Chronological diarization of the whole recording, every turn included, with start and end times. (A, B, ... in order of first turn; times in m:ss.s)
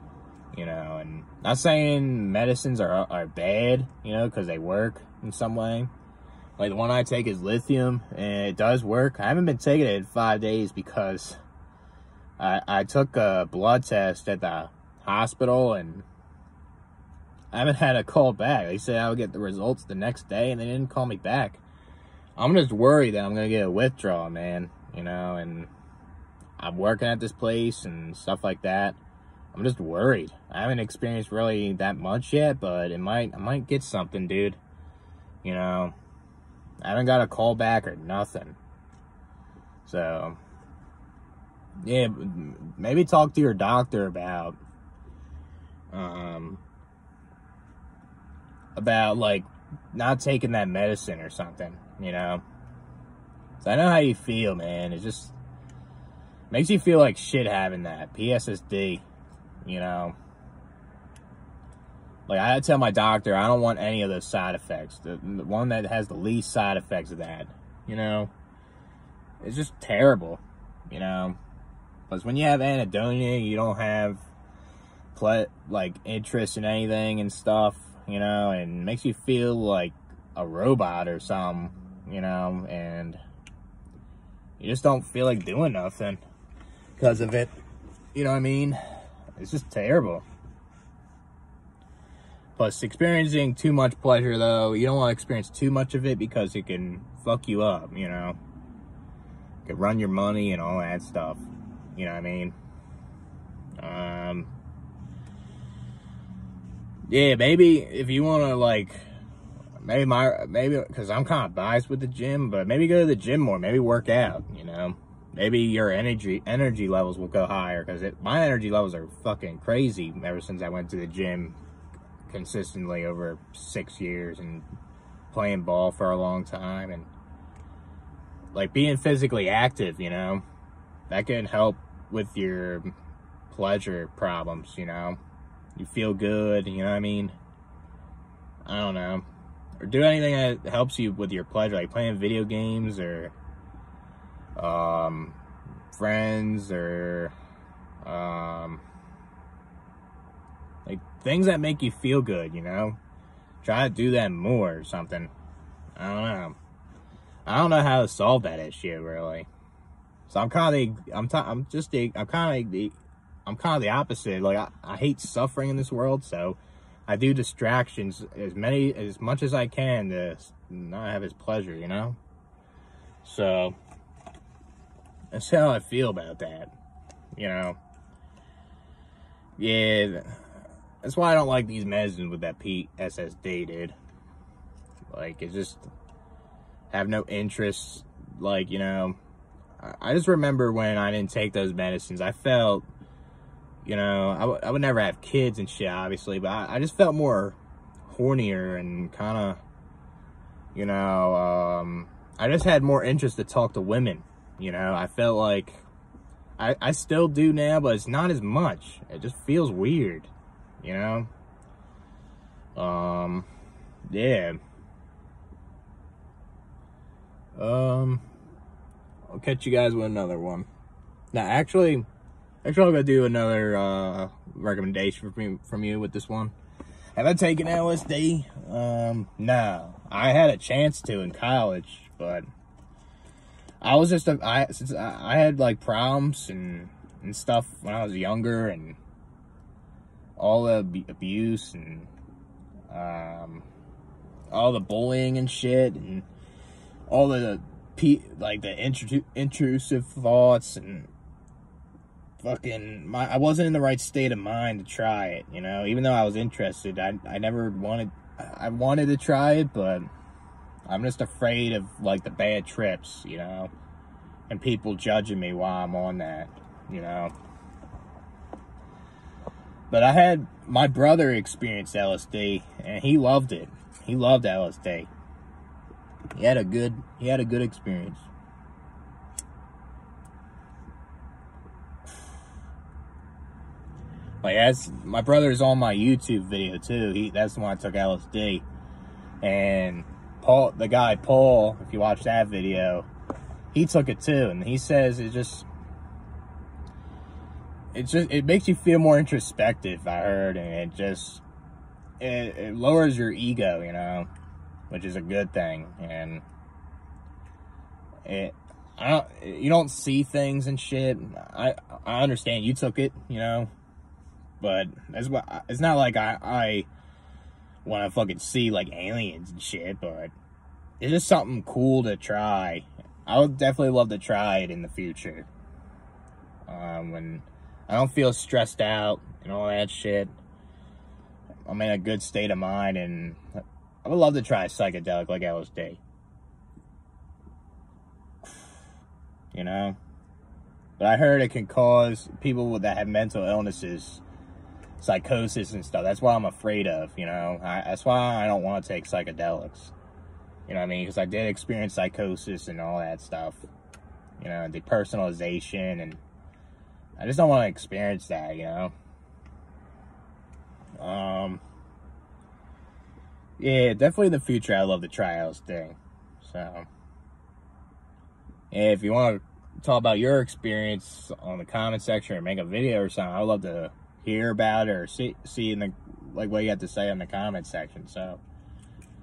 0:00.5-0:05.9 A
0:06.6-0:11.4 A
0:12.4-0:16.0 A
0:17.5-0:21.6 A
0:22.4-0:25.7 A
0:26.6-0:29.0 A
0:29.5-0:34.6 A
0:35.4-0:35.9 A
0:36.8-0:38.6 A
0:39.8-0:40.4 A
0:41.8-0:44.6 A
0:45.9-0:46.6 A
0:48.7-0:52.4 A
0:53.6-0:55.4 A
0:56.5-0:59.0 A
0:59.6-1:00.1 A
1:02.3-1:08.3 A
1:09.4-1:11.4 A
1:12.1-1:14.2 A
1:15.1-1:23.2 A
1:24.6-1:26.2 A
1:27.0-1:27.5 A
1:28.1-1:28.8 A
1:29.4-1:30.2 A
1:32.6-1:38.4 A
1:39.6-1:41.4 A
1:42.0-1:42.6 A
1:43.8-1:44.5 A
1:47.1-1:49.0 A
1:49.8-2:01.6 A
2:02.3-2:04.6 A
2:05.3-2:07.1 A
2:08.5-2:10.4 A
2:11.1-2:12.9 A
2:13.5-2:15.2 A
2:15.8-2:17.4 A
2:18.6-2:19.2 A
2:19.8-2:23.3 A
2:24.6-2:25.4 A
2:25.9-2:27.3 A
2:28.0-2:28.8 A
2:30.8-2:33.0 A
2:33.6-2:35.3 A
2:36.0-2:36.6 A
2:37.4-2:39.5 A
2:40.3-2:52.2 A
2:53.2-2:53.8 A
2:55.3-2:56.7 A
2:57.4-2:57.8 A
2:59.6-3:00.4 A
3:01.0-3:03.9 A
3:05.1-3:05.8 A
3:06.9-3:09.2 A
3:09.8-3:12.8 A
3:13.8-3:19.6 A
3:20.7-3:25.8 A
3:26.6-3:30.3 A
3:30.8-3:31.3 A
3:32.8-3:33.5 A
3:34.1-3:34.6 A
3:37.6-3:38.2 A
3:39.3-3:40.7 A
3:41.3-3:42.0 A
3:42.6-3:46.5 A
3:47.2-3:52.4 A
3:53.8-3:59.0 A
4:00.4-4:02.1 A
4:02.9-4:03.6 A
4:04.5-4:06.3 A
4:07.1-4:11.1 A
4:12.4-4:20.1 A
4:20.9-4:23.7 A
4:24.5-4:27.3 A
4:29.9-4:35.1 A
4:36.3-4:38.3 A
4:44.4-4:48.6 A
4:49.4-4:53.1 A
4:53.7-4:55.7 A
4:57.9-5:01.4 A
5:02.2-5:04.3 A
5:04.9-5:06.4 A
5:08.2-5:13.7 A
5:14.6-5:16.9 A
5:17.8-5:20.3 A
5:21.0-5:25.5 A
5:26.7-5:30.3 A
5:31.6-5:33.4 A
5:34.0-5:36.0 A
5:39.5-5:40.0 A
5:41.0-5:44.2 A
5:45.0-5:49.9 A
5:50.7-5:53.7 A
5:54.4-5:56.2 A
5:57.2-5:58.9 A
6:01.0-6:01.6 A
6:03.6-6:06.9 A
6:08.7-6:18.4 A